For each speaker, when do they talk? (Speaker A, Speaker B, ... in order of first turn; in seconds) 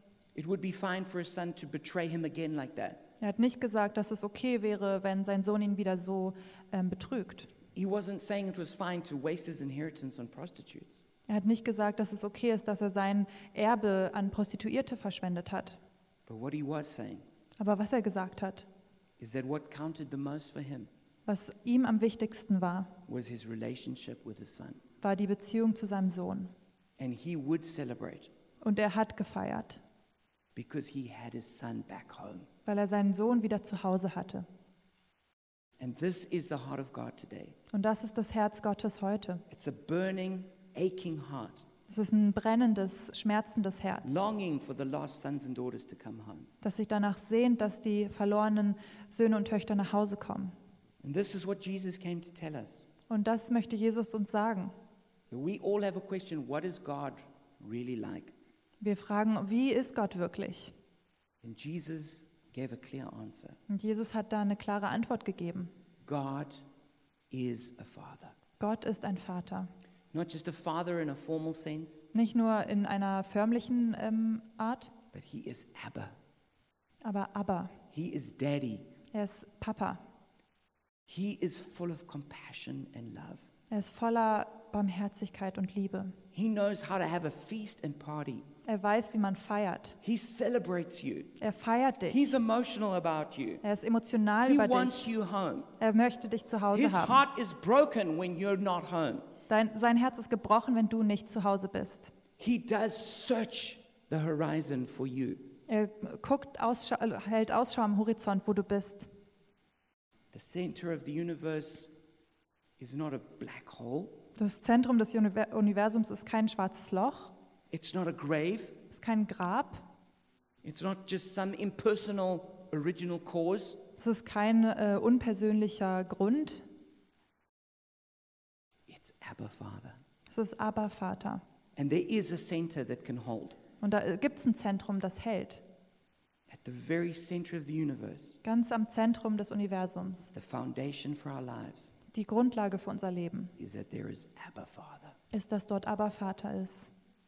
Speaker A: 0.3-3.1, 7.8-11.0, 16.3-17.2, 19.2-20.9, 23.1-24.8, 27.0-28.3, 30.6-32.5, 35.8-37.6, 39.5-41.7, 44.0-46.5, 51.0-52.9, 55.3-58.3, 61.4-63.6, 66.0-66.6, 67.3-68.3, 70.1-72.1, 75.1-76.2, 77.9-78.9, 81.1-83.5, 86.3-88.5, 90.0-91.4, 92.1-93.6, 94.4-95.7, 96.7-99.3, 102.4-105.6, 110.3-111.9, 112.8-114.2, 117.7-118.8, 120.6-123.8, 128.9-130.0, 131.8-133.6, 136.5-138.4, 140.3-141.9, 143.6-145.2
Speaker B: 3.2-7.5, 11.3-15.8, 17.6-18.7, 21.3-23.0, 25.0-26.5, 28.6-29.8, 32.7-34.5, 37.7-39.5, 41.9-44.2, 46.6-50.5, 53.1-54.7, 58.8-60.7, 63.7-65.7, 68.6-69.7, 72.1-74.9, 77.0-77.8, 79.1-80.0, 83.7-86.2, 88.7-90.0, 91.4-92.4, 93.6-95.1, 95.8-97.2, 99.5-102.1, 105.7-109.1, 114.4-117.3, 118.9-119.8, 124.0-126.7, 130.3-131.4, 133.8-135.6, 138.4-140.3, 142.1-143.5, 145.3-146.9